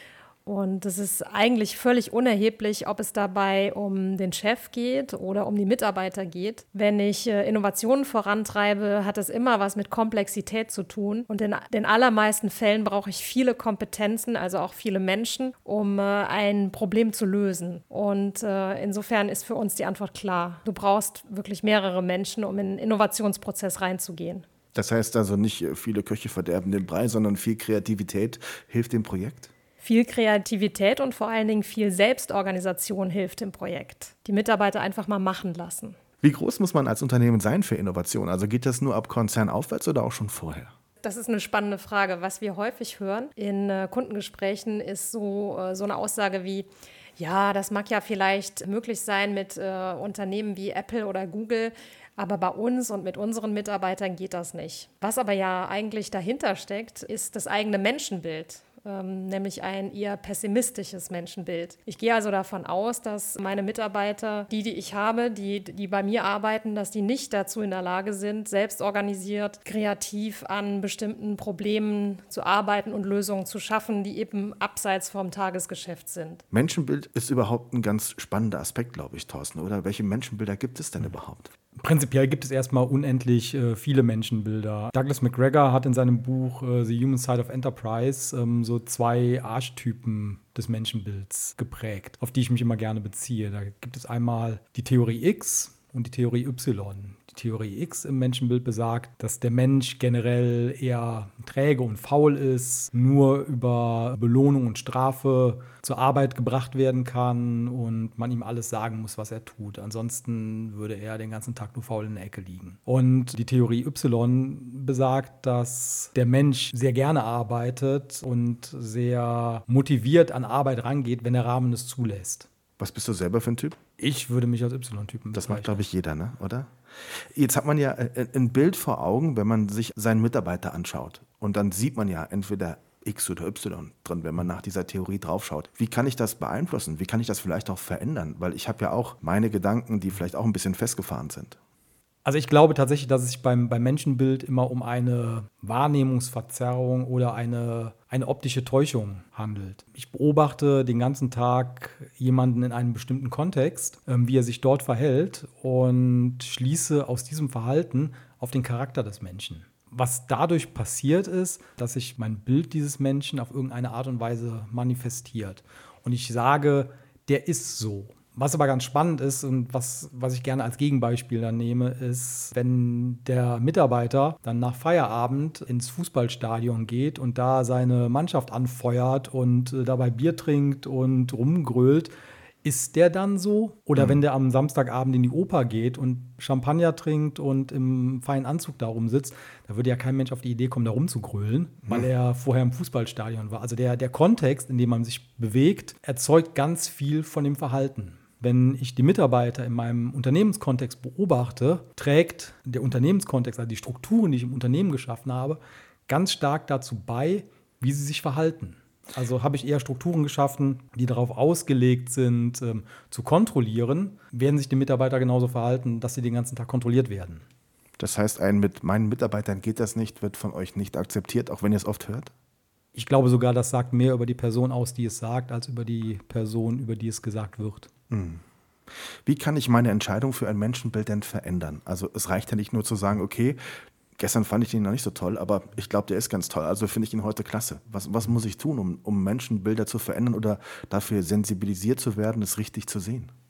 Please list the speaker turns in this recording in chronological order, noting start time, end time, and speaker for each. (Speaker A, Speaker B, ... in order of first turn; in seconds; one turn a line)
Speaker A: 0.5-24.4
Speaker B: 24.7-29.5
Speaker A: 29.8-36.0
Speaker B: 36.2-40.7
Speaker A: 41.0-76.4
Speaker B: 76.5-81.5
Speaker C: 81.8-122.5
Speaker B: 122.8-123.8
Speaker C: 124.0-125.8
Speaker B: 125.3-141.6
Speaker C: 142.2-182.1
Speaker C: 182.6-217.4
Speaker B: 218.0-222.3
Speaker C: 222.9-227.9
Speaker B: 228.1-228.4
Speaker B: 229.2-233.6
Speaker B: 234.2-243.3